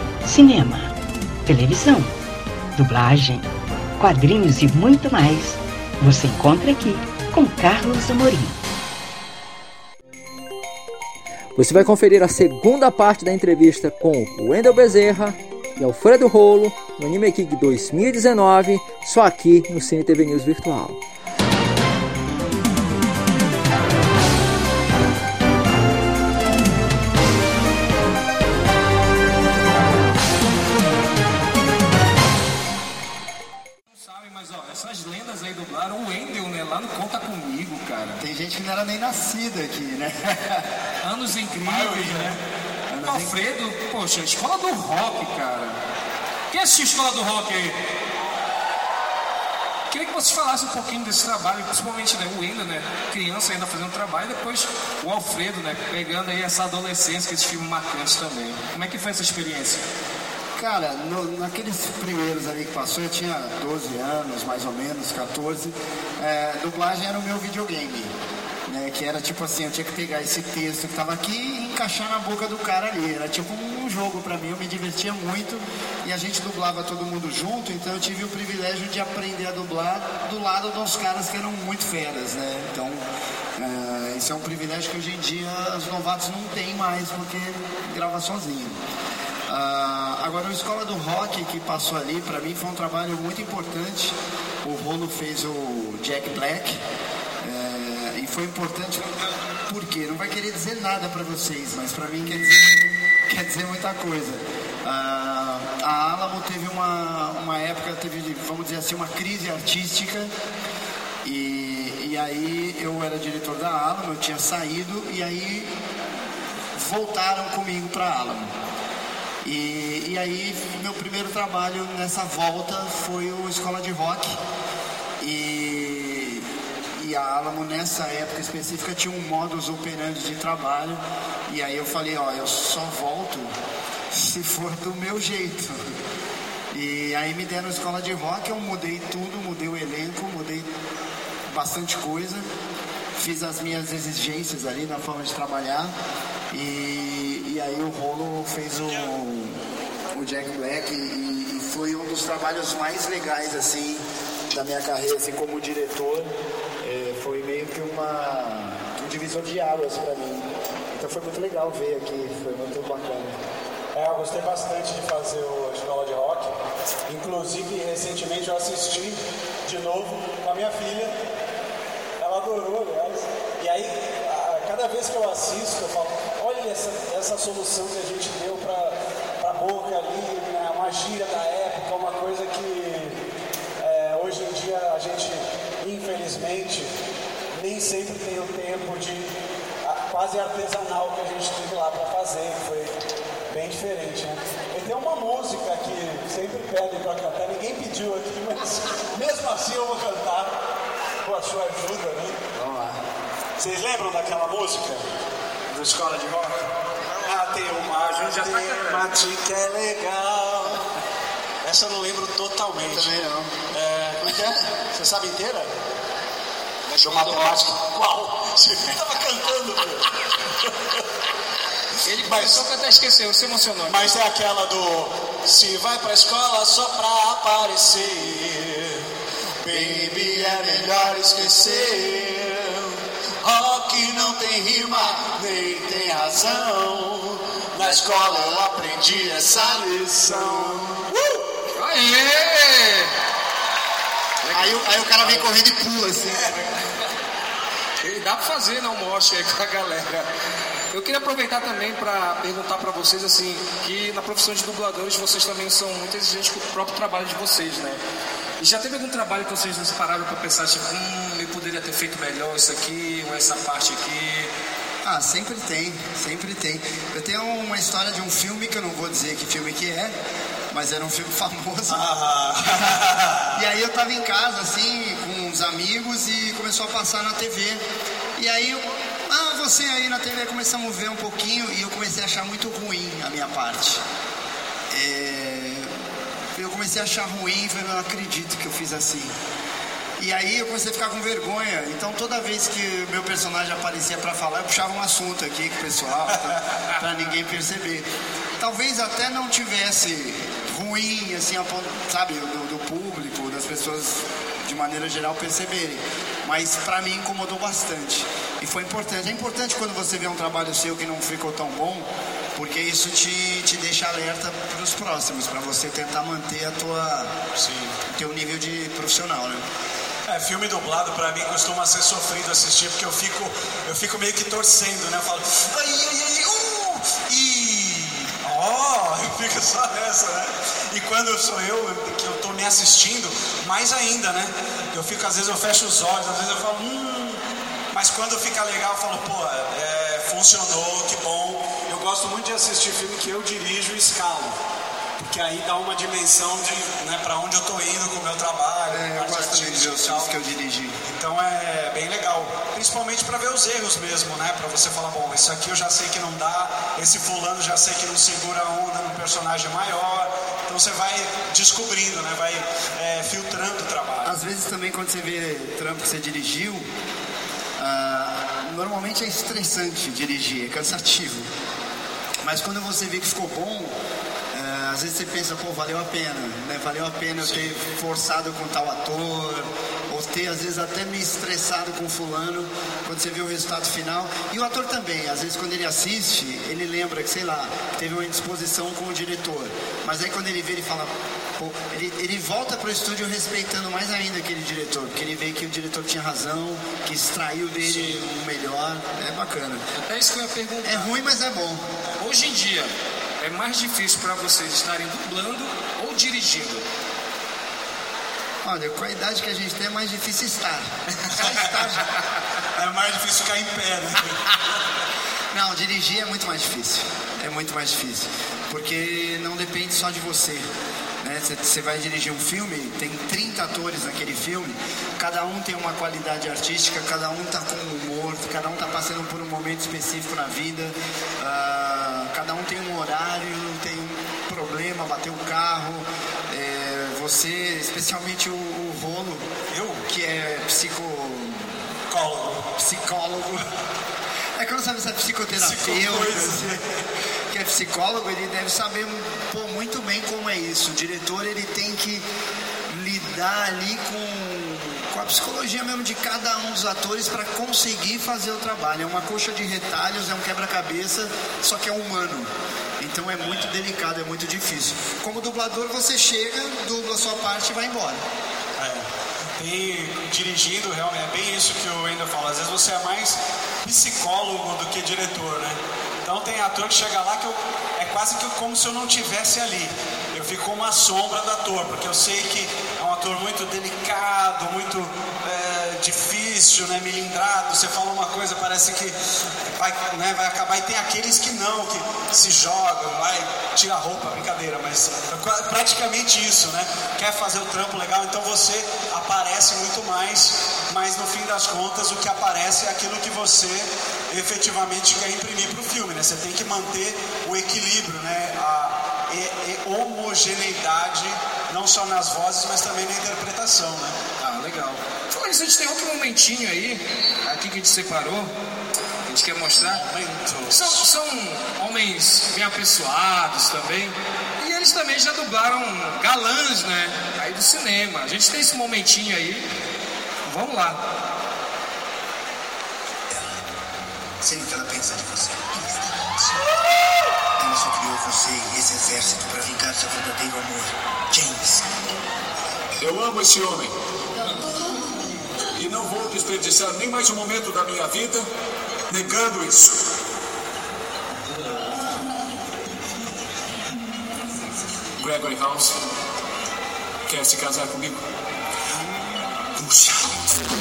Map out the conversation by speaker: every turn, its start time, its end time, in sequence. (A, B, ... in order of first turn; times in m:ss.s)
0:00.2-0:02.2 A
0:02.8-0:08.6 A
0:11.6-0:21.0 B
0:33.9-0:38.2 C
0:38.2-0:40.7 D
0:41.0-0:42.4 C
0:41.5-0:42.4 E
0:42.9-0:43.4 D
0:43.0-0:45.8 C
0:46.5-0:47.8 C
0:49.9-0:59.8 C
1:00.6-1:08.1 D
1:08.7-1:23.0 D
1:23.6-1:28.8 D
1:29.5-1:36.8 D
1:37.4-1:50.3 D
1:51.2-1:55.7 D
1:56.8-1:58.5 D
1:59.4-2:04.4 D
2:05.2-2:13.5 D
2:14.1-2:15.8 D
2:16.7-2:20.7 D
2:21.5-2:22.5 D
2:23.2-2:25.9 D
2:26.5-2:29.6 D
2:30.1-2:43.4 D
2:43.9-2:46.5 E
2:47.1-2:51.2 E
2:52.2-3:03.2 E
3:03.8-3:06.9 E
3:07.6-3:13.0 E
3:13.5-3:20.5 E
3:21.2-3:22.4 E
3:22.5-3:23.0 D
3:23.6-3:25.0 E
3:25.7-3:26.6 E
3:27.2-3:30.8 E
3:27.9-3:29.1 C
3:31.6-3:33.2 E
3:32.9-3:33.6 D
3:33.7-3:35.7 E
3:34.2-3:34.5 D
3:36.9-3:37.6 C
3:37.0-3:41.0 E
3:42.0-3:44.0 C
3:42.2-3:42.6 E
3:43.9-3:49.1 E
3:49.6-3:52.9 D
3:50.6-3:52.1 E
3:53.4-4:01.1 D
3:57.8-3:58.6 E
4:00.3-4:00.8 E
4:01.8-4:03.1 C
4:04.4-4:05.4 C
4:04.5-4:06.7 D
4:08.0-4:10.3 C
4:10.9-4:18.0 C
4:18.6-4:24.5 C
4:25.0-4:30.2 D
4:30.7-4:32.0 D
4:31.9-4:33.6 E
4:33.5-4:37.8 D
4:38.4-4:44.0 D
4:44.9-4:45.9 D
4:46.5-4:49.3 D
4:50.2-4:58.1 D
4:58.6-5:17.4 D
5:17.6-5:18.0 E
5:18.1-5:19.6 D
5:20.3-5:37.4 E
5:37.9-5:44.6 E
5:45.2-5:50.4 E
5:48.9-5:51.0 D
5:51.0-6:04.4 E
6:04.2-6:06.9 D
6:07.8-6:11.5 D
6:12.4-6:14.0 D
6:14.5-6:39.8 D
6:40.0-6:41.2 C
6:40.8-6:41.8 D
6:42.2-6:46.9 C
6:48.6-6:52.1 D
6:52.8-6:54.6 E
6:55.5-7:00.6 D
7:01.2-7:19.5 D
7:19.7-7:20.0 E
7:20.1-7:21.8 D
7:22.1-7:22.6 E
7:22.8-7:23.7 D
7:24.6-7:26.8 D
7:25.6-7:26.8 E
7:27.5-7:32.3 D
7:32.9-7:48.2 D
7:43.4-7:43.7 E
7:48.8-7:49.1 E
7:49.6-8:09.2 E
8:09.7-8:34.2 E
8:34.4-8:38.5 C
8:39.2-8:40.0 C
8:39.8-8:41.0 E
8:40.7-8:49.7 C
8:50.4-8:51.0 C
8:54.4-8:56.6 D
8:57.6-9:01.9 D
9:03.0-9:03.9 F
9:05.8-9:08.5 F
9:09.1-9:10.0 F
9:15.2-9:16.0 F
9:17.3-9:18.2 F
9:19.8-9:20.3 F